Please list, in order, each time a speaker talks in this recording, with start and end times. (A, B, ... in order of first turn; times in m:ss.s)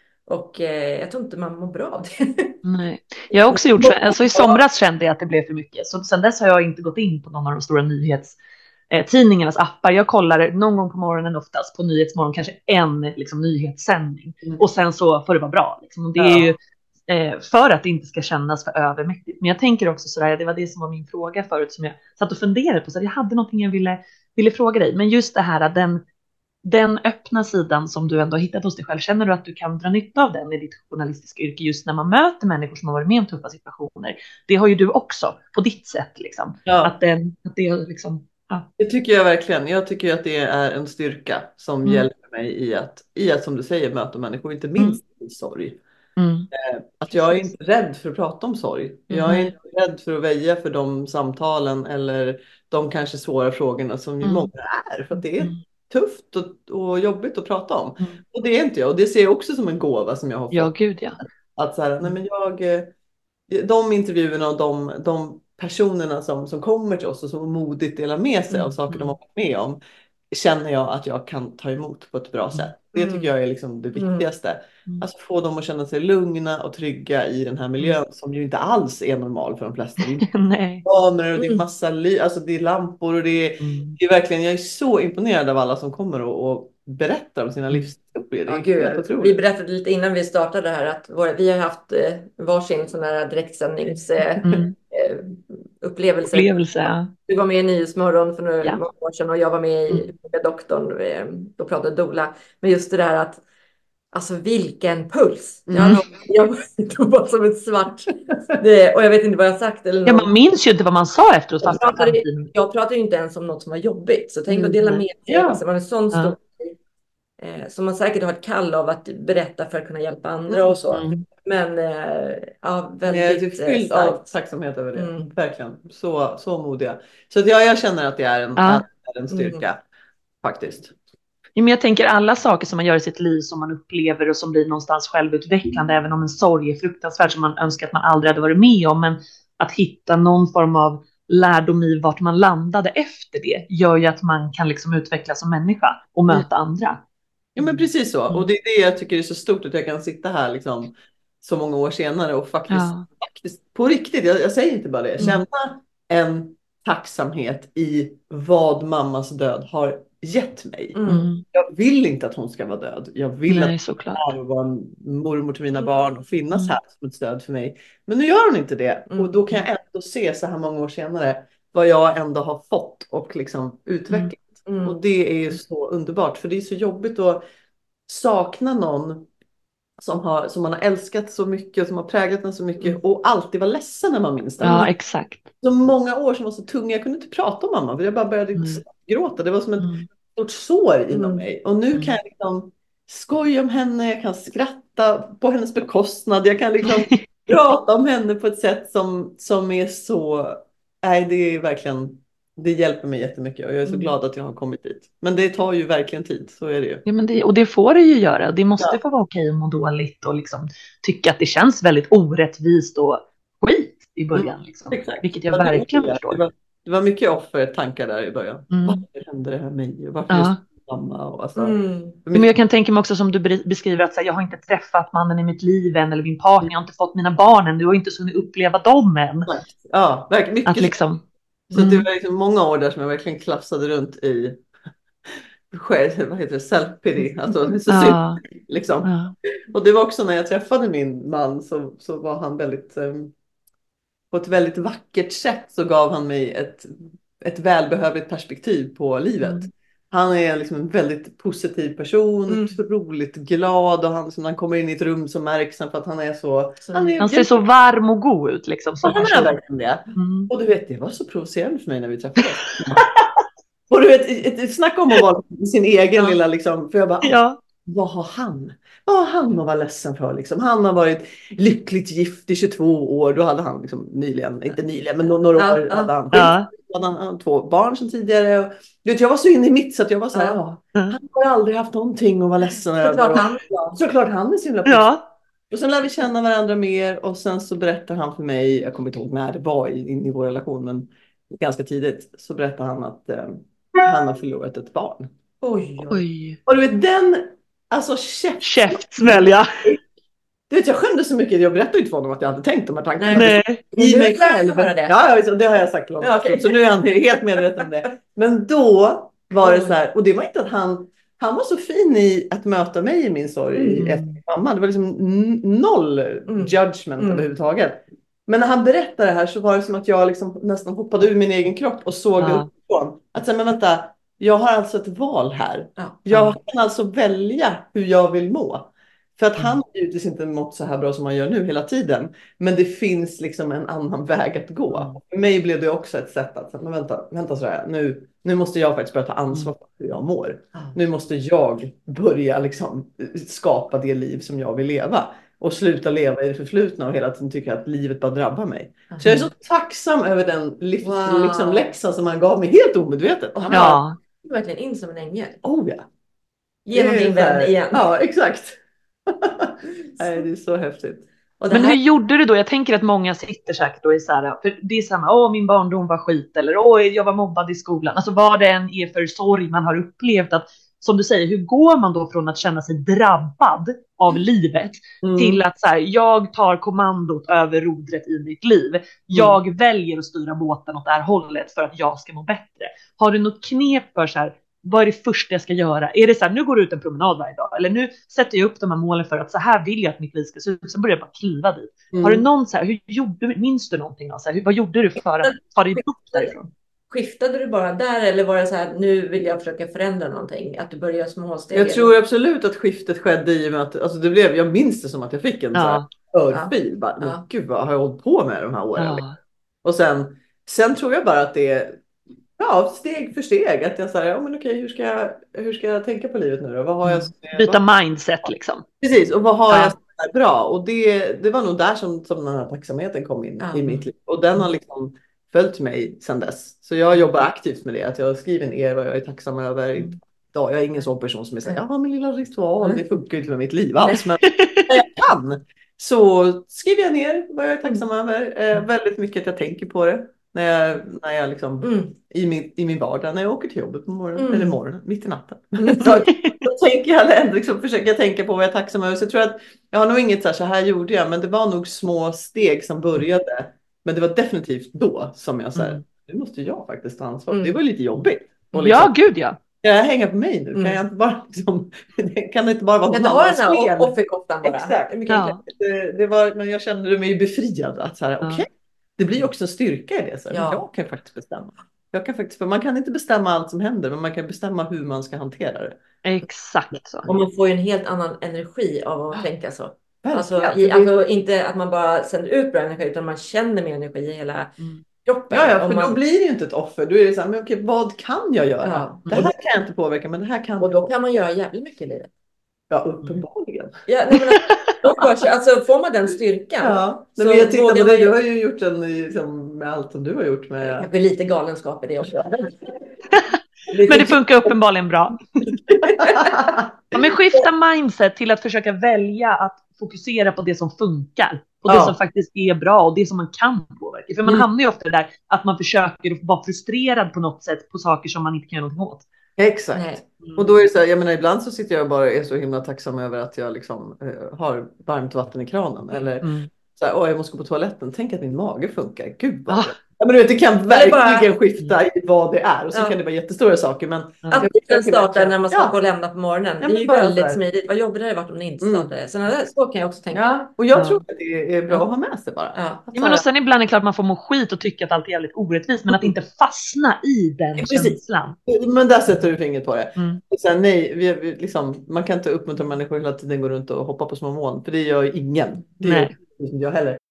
0:00.3-0:02.6 A
0:02.6-0:08.4 B
0:03.5-0:03.9 A
0:03.6-0:04.1 C
0:08.9-0:26.0 B
0:16.2-0:16.6 C
0:26.6-0:38.7 B
0:36.7-0:36.9 C
0:38.8-0:45.8 C
0:46.2-0:46.5 B
0:46.5-1:00.8 C
0:49.1-0:49.5 B
0:54.2-0:54.5 B
1:00.5-1:01.2 B
1:01.6-1:02.9 C
1:03.5-1:09.8 C
1:08.9-1:09.2 B
1:10.3-1:20.3 C
1:13.0-1:13.3 A
1:14.0-1:14.3 A
1:20.0-1:20.8 B
1:20.8-1:29.4 C
1:21.4-1:21.6 A
1:23.6-1:24.0 B
1:28.5-1:43.4 A
1:34.4-1:34.7 B
1:36.3-1:37.1 B
1:44.1-1:50.3 A
1:45.7-1:46.0 C
1:50.1-1:52.5 B
1:51.6-1:56.8 A
1:54.5-1:55.6 C
1:57.4-2:04.3 A
2:00.5-2:00.8 C
2:00.9-2:01.2 B
2:03.1-2:09.8 C
2:05.0-2:05.3 A
2:08.6-2:08.8 B
2:09.3-2:09.6 A
2:10.4-2:10.9 C
2:11.6-2:27.0 B
2:27.6-2:57.4 C
2:32.7-2:33.0 B
2:40.9-2:41.3 A
2:41.1-2:41.4 B
2:43.5-2:44.2 B
2:49.1-2:49.6 A
2:54.7-2:55.0 A
2:58.1-2:59.3 C
3:00.0-3:04.9 C
3:04.6-3:05.5 B
3:05.6-3:27.0 C
3:08.6-3:08.8 B
3:09.8-3:10.1 B
3:11.1-3:11.4 A
3:16.9-3:17.2 B
3:23.9-3:24.1 A
3:27.1-3:36.4 B
3:34.3-3:42.5 C
3:38.7-3:39.0 B
3:40.3-3:40.6 B
3:41.6-3:42.2 A
3:42.3-3:49.5 B
3:49.5-3:51.0 C
3:50.7-3:52.1 B
3:51.7-3:54.6 C
3:55.7-3:59.1 C
3:57.9-3:58.4 B
3:59.0-3:59.3 B
3:59.7-4:03.3 C
4:04.3-4:17.6 C
4:12.5-4:12.8 A
4:16.8-4:17.2 A
4:17.2-4:19.6 B
4:19.0-4:23.1 C
4:20.2-4:20.5 B
4:23.9-4:45.2 C
4:27.2-4:27.6 B
4:35.6-4:36.1 A
4:36.3-4:36.7 B
4:43.0-4:44.0 A
4:44.8-4:45.2 B
4:45.7-4:55.3 C
4:55.6-4:56.2 A
4:56.1-4:56.6 B
4:56.7-5:00.0 C
4:58.6-4:59.7 B
5:00.7-5:54.0 C
5:03.2-5:05.1 A
5:03.4-5:03.8 B
5:06.2-5:06.7 A
5:07.6-5:07.9 A
5:09.6-5:10.0 A
5:13.8-5:14.1 A
5:14.0-5:14.4 B
5:16.5-5:17.5 A
5:22.4-5:22.7 B
5:26.3-5:26.6 B
5:49.1-5:49.5 A
5:51.0-5:51.9 A
5:53.6-5:55.6 A
5:53.7-5:54.2 B
5:55.6-5:56.1 C
5:56.9-5:58.0 A
5:56.9-6:01.3 C
6:01.6-6:02.0 A
6:01.7-6:36.7 B
6:15.2-6:15.6 C
6:19.3-6:19.6 C
6:32.1-6:32.4 C
6:35.4-6:36.6 A
6:37.1-6:42.1 A
6:41.7-6:49.3 C
6:45.7-6:46.1 B
6:46.5-6:47.4 A
6:49.0-6:49.4 B
6:49.8-6:52.0 C
6:52.6-6:57.8 C
6:57.0-6:58.8 B
6:59.0-7:39.1 C
6:59.7-7:00.0 B
7:03.6-7:03.9 A
7:14.4-7:14.9 B
7:21.8-7:22.2 A
7:24.4-7:24.8 A
7:25.8-7:26.2 A
7:26.3-7:26.6 B
7:35.8-7:36.0 B
7:37.5-7:37.8 A
7:38.8-7:39.6 B
7:39.8-7:56.0 C
7:40.7-7:41.0 A
7:43.1-7:45.0 A
7:45.3-7:45.6 B
7:50.5-7:50.8 A
7:56.2-7:57.2 B
7:57.3-8:04.7 A
8:00.2-8:01.1 C
8:05.2-8:06.2 A
8:05.5-8:11.1 C
8:08.8-8:09.5 A
8:10.8-8:12.3 A
8:12.9-8:13.9 C
8:14.1-8:18.3 A
8:16.8-8:21.1 C
8:20.8-8:22.7 A
8:23.9-8:24.4 C
8:24.1-8:25.4 B
8:25.9-8:27.3 C
8:26.0-8:26.6 A
8:27.1-8:39.3 B
8:31.9-8:32.2 C
8:39.6-8:56.0 C
8:39.9-8:40.2 A
8:46.4-8:46.7 B
8:49.7-8:50.0 B
8:50.9-8:51.5 A
8:54.5-9:00.5 A
8:56.8-8:57.6 C
8:58.8-8:59.1 C
9:00.3-9:03.4 C
9:00.9-9:01.2 B
9:02.8-9:03.0 A
9:03.1-9:08.6 B
9:07.8-9:17.2 C
9:16.0-9:16.3 B